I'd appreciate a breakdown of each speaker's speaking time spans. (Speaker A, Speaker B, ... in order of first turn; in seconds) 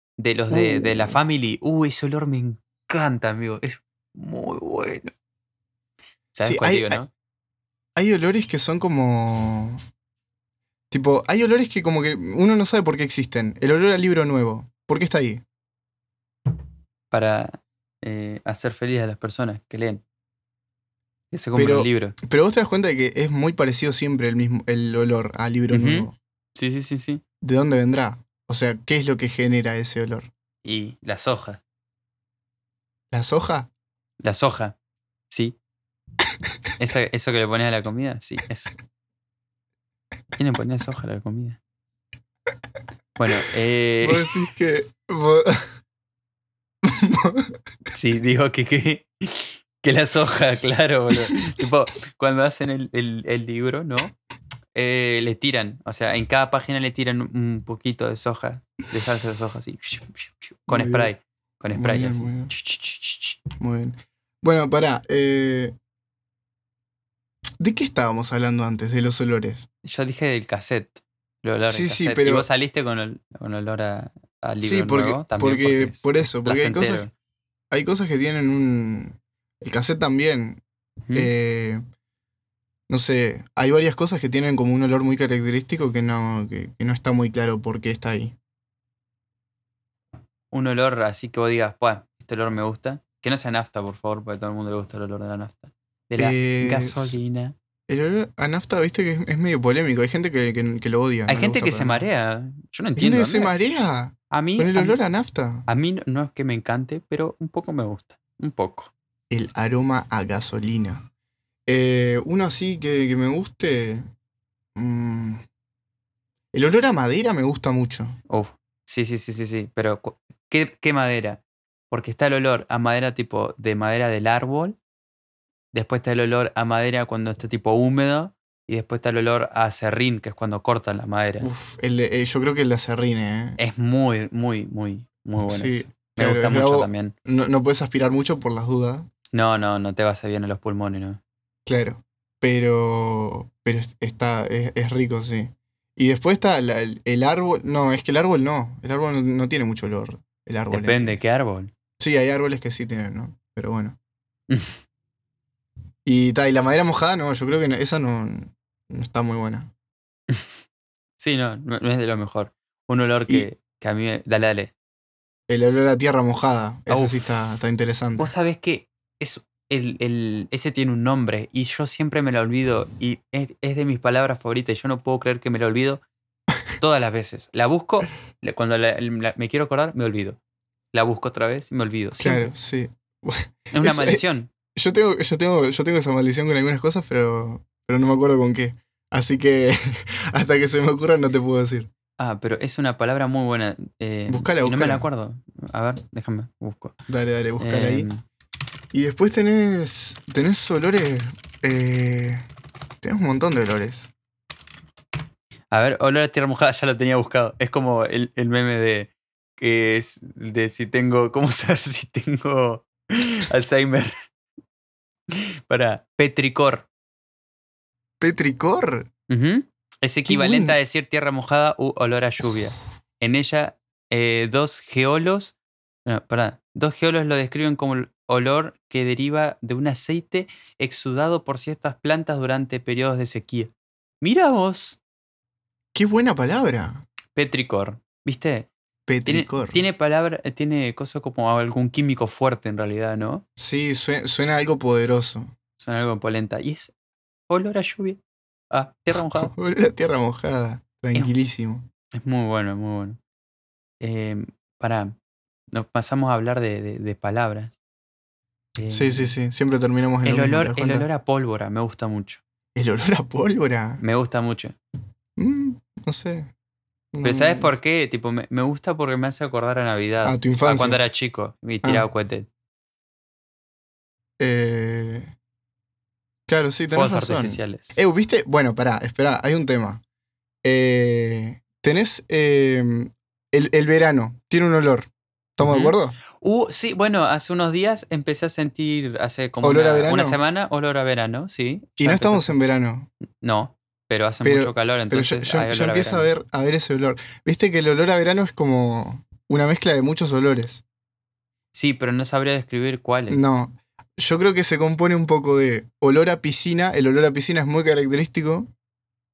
Speaker A: 0.2-5.1, 6.3-7.1, 17.1-20.0, 21.3-22.1, 25.7-27.2, 30.6-31.6, 34.2-34.7, 35.3-35.5, 36.8-38.7, 40.4-41.6, 43.2-44.3, 47.9-54.1, 54.7-63.4, 69.8-77.1, 90.5-97.5, 101.3-103.5, 104.3-105.0, 105.7-108.9, 118.3-124.8, 125.7-131.5, 133.6-137.1, 139.3-141.2, 150.7-151.7, 154.5-154.8, 161.2-164.7, 166.9-167.2, 168.2-176.0, 176.8-180.4, 180.9-182.5, 183.7-184.5, 192.2-196.9, 197.6-198.2, 205.7-214.1, 215.3-216.9, 219.3-225.5, 226.1-235.0, 237.3-238.7, 239.2-243.4, 245.8-246.9, 247.5-249.5, 252.1-253.2, 254.0-255.2, 255.7-257.8, 258.8-259.3, 260.2-262.4, 264.0-264.8, 267.2-272.5, 276.9-278.0, 285.6-292.6, 293.4-296.3, 301.7-303.4
Speaker B: 0.5-1.2, 6.4-7.0, 8.0-9.8, 10.9-15.4, 21.5-26.1, 27.4-30.3, 33.1-33.7, 44.0-45.6, 46.8-47.5, 60.7-61.1, 61.7-62.5, 63.6-65.7, 67.6-69.6, 71.7-72.5, 74.6-77.1, 77.7-80.6, 81.1-81.8, 82.9-88.3, 96.2-97.2, 97.9-102.0, 103.0-105.7, 109.3-111.1, 111.7-114.0, 114.8-115.4, 116.5-118.2, 131.4-133.6, 135.5-139.1, 141.7-151.2, 152.0-154.0, 156.0-159.7, 165.5-168.3, 182.2-184.2, 184.8-191.9, 194.3-195.1, 197.1-198.1, 198.9-202.4, 203.0-204.1, 218.2-219.1, 220.2-220.8, 235.9-237.0, 239.1-239.8, 243.6-245.5, 249.3-251.9, 258.9-261.1, 262.7-264.0, 265.4-266.5, 267.1-267.7, 270.2-271.0, 274.4-275.3, 276.5-280.0, 280.6-286.1, 289.6-290.4, 292.0-293.1, 294.4-300.8, 303.3-308.7